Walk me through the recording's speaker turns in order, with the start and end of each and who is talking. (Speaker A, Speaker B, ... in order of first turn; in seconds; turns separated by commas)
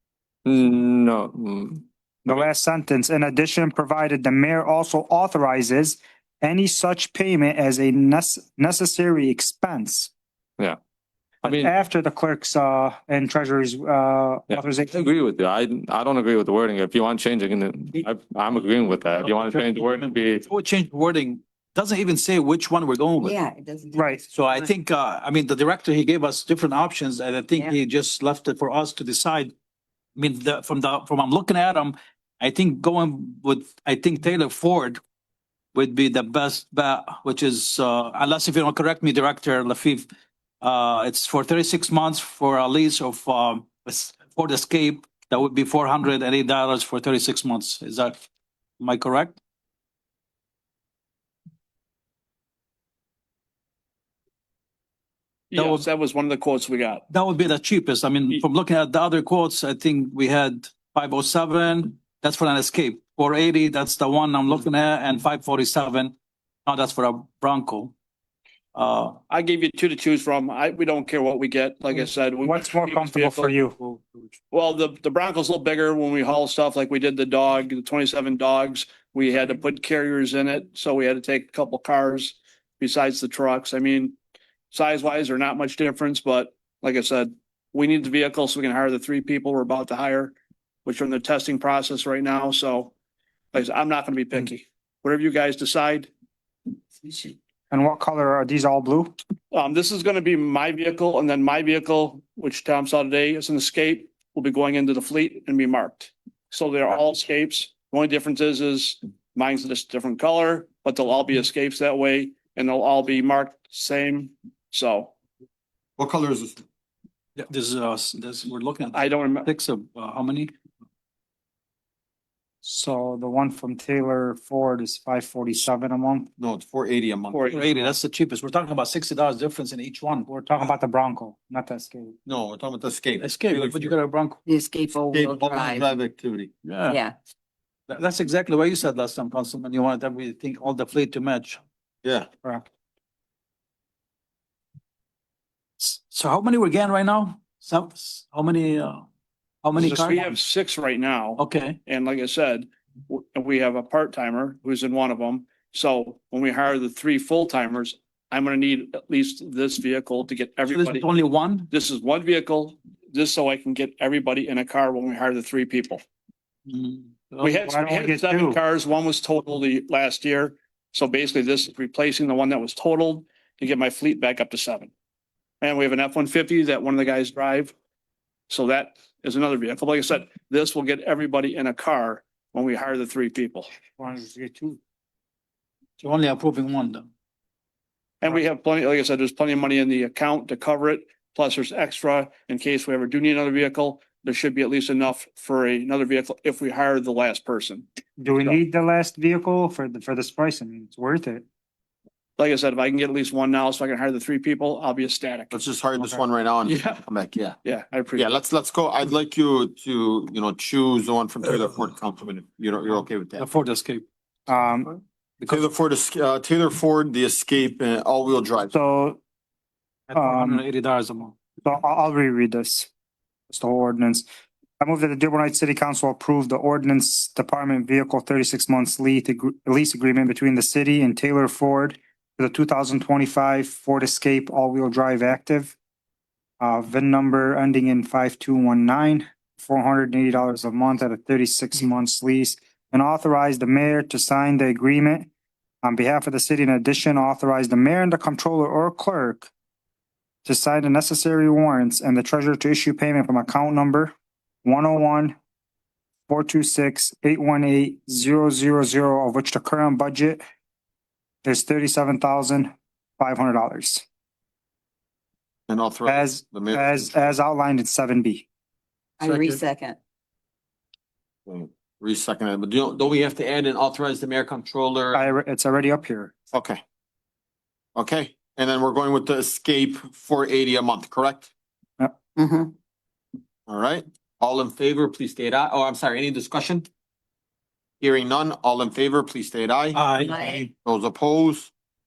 Speaker A: 0.4-1.9, Speaker B: 2.2-10.1, Speaker A: 11.4-11.7, Speaker B: 11.4-15.1, Speaker A: 14.5-20.5, Speaker C: 19.2-23.4, Speaker D: 23.2-24.0, Speaker B: 23.9-24.2, Speaker C: 24.3-29.5, Speaker C: 30.1-35.0, Speaker C: 35.7-40.1, Speaker C: 40.6-48.2, Speaker C: 48.8-49.4, Speaker E: 55.5-57.0, Speaker C: 55.5-55.8, Speaker C: 57.1-66.1, Speaker C: 66.7-67.9, Speaker C: 68.7-69.2, Speaker E: 69.3-73.5, Speaker B: 72.4-74.0, Speaker E: 74.5-84.1, Speaker E: 84.7-92.9, Speaker E: 93.5-96.1, Speaker B: 97.7-99.1, Speaker E: 99.5-115.1, Speaker F: 116.0-116.6, Speaker C: 117.3-120.5, Speaker E: 118.9-119.5, Speaker B: 122.6-126.3, Speaker F: 126.4-127.4, Speaker E: 127.3-128.0, Speaker C: 127.5-130.3, Speaker B: 130.3-132.1, Speaker F: 132.2-133.9, Speaker C: 133.2-134.4, Speaker D: 134.4-135.9, Speaker F: 135.1-136.5, Speaker C: 136.6-137.0, Speaker D: 136.9-137.2, Speaker C: 137.9-141.6, Speaker C: 145.8-149.1, Speaker C: 149.6-150.2, Speaker E: 149.8-161.1, Speaker C: 151.4-151.8, Speaker C: 160.7-161.7, Speaker E: 161.7-166.0, Speaker C: 166.7-167.5, Speaker E: 167.4-174.9, Speaker B: 167.6-168.6, Speaker E: 175.6-177.7, Speaker E: 178.5-183.7, Speaker B: 184.0-184.8, Speaker C: 186.0-187.1, Speaker E: 188.2-197.8, Speaker B: 198.2-201.4, Speaker E: 202.4-205.5, Speaker F: 205.5-207.6, Speaker E: 206.6-207.0, Speaker E: 207.6-208.3, Speaker F: 208.1-213.4, Speaker C: 213.4-214.0, Speaker B: 214.5-214.9, Speaker F: 215.5-218.7, Speaker B: 218.7-219.2, Speaker C: 220.1-221.3, Speaker B: 220.1-220.7, Speaker B: 221.6-222.9, Speaker B: 223.5-224.3, Speaker B: 224.8-235.8, Speaker B: 236.6-245.3, Speaker B: 245.8-249.5, Speaker B: 250.4-254.1, Speaker B: 254.6-255.3, Speaker B: 256.3-260.4, Speaker B: 261.4-264.0, Speaker F: 265.7-267.3, Speaker B: 266.1-268.5, Speaker D: 269.2-270.0, Speaker F: 269.2-269.5, Speaker F: 271.5-275.3, Speaker B: 275.1-276.3, Speaker F: 276.5-276.8, Speaker F: 277.9-281.5, Speaker D: 282.4-282.7, Speaker F: 283.7-286.9, Speaker F: 288.0-291.7, Speaker C: 289.9-290.7